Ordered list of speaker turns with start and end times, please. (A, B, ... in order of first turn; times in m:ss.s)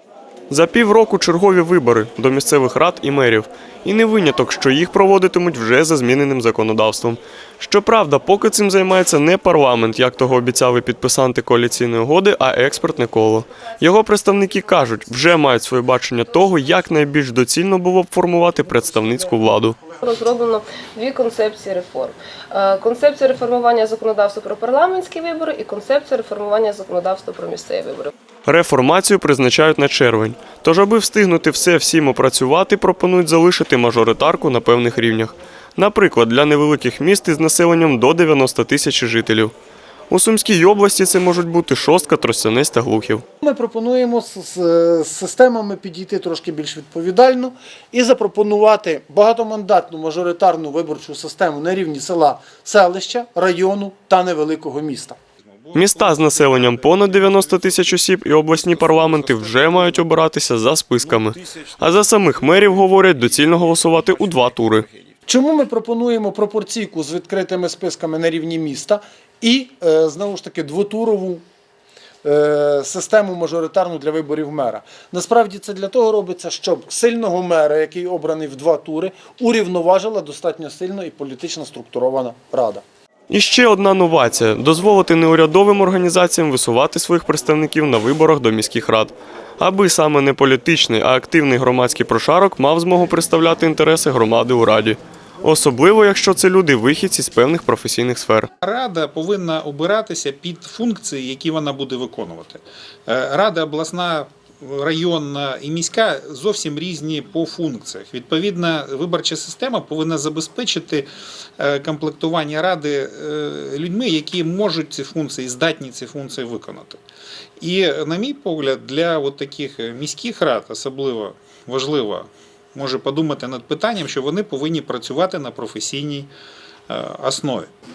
0:00.5-0:19.8 A
0:19.9-0:28.1 B
0:28.4-0:39.5 A
0:40.1-0:43.2 A
0:43.4-0:55.2 C
0:55.4-0:57.9 D
0:55.7-1:04.9 A
1:05.3-1:11.4 C
1:12.2-1:22.8 C
1:23.3-1:38.5 A
1:38.6-1:51.1 D
1:51.6-1:57.0 D
1:57.6-2:06.3 D
2:06.9-2:07.7 D